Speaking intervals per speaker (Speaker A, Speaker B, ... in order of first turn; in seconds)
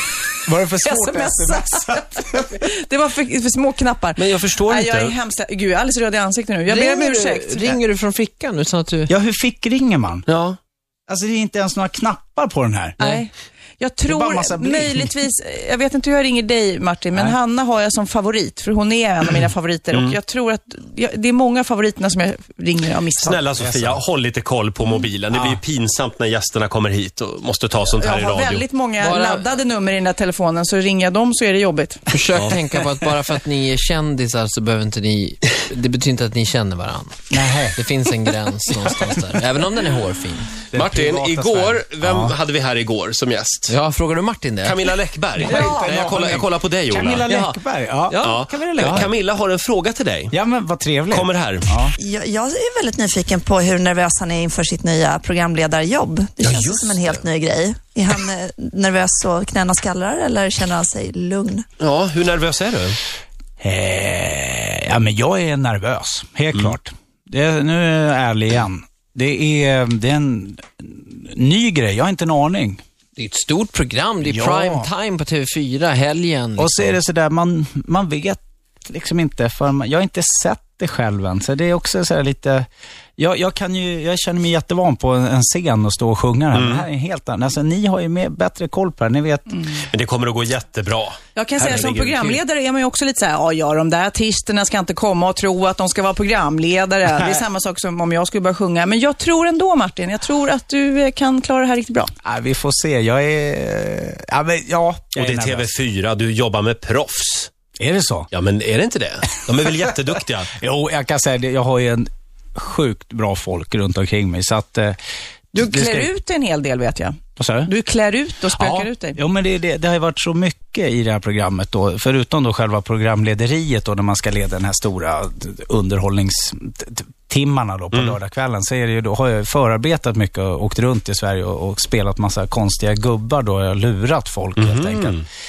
Speaker A: 0.4-2.5, 9.1-10.2, 11.1-13.0, 14.1-15.1, 23.6-24.0, 25.3-25.6, 37.3-37.8, 40.7-42.4, 45.4-49.1, 50.3-51.9, 63.6-72.8, 74.2-74.9, 76.6-82.7, 83.2-89.6, 91.6-92.2, 102.2-105.7, 107.8-108.3, 110.5-115.0, 115.6-116.1, 117.4-117.7, 118.5-135.2
Speaker B: 0.8-7.7, 13.0-23.4, 27.9-32.1, 91.3-102.1, 115.5-119.2
Speaker C: 4.2-5.1, 10.3-10.6, 23.2-28.7, 40.7-43.7, 44.6-47.3, 48.2-50.3, 51.1-51.7, 56.4-57.2, 61.8-63.0, 86.5-86.8, 89.9-91.9, 105.2-107.5, 108.3-110.5, 134.6-135.2
Speaker D: 6.7-9.1, 29.0-29.4, 32.1-40.5, 43.7-44.8, 47.2-49.0, 73.2-77.0
Speaker E: 52.0-61.6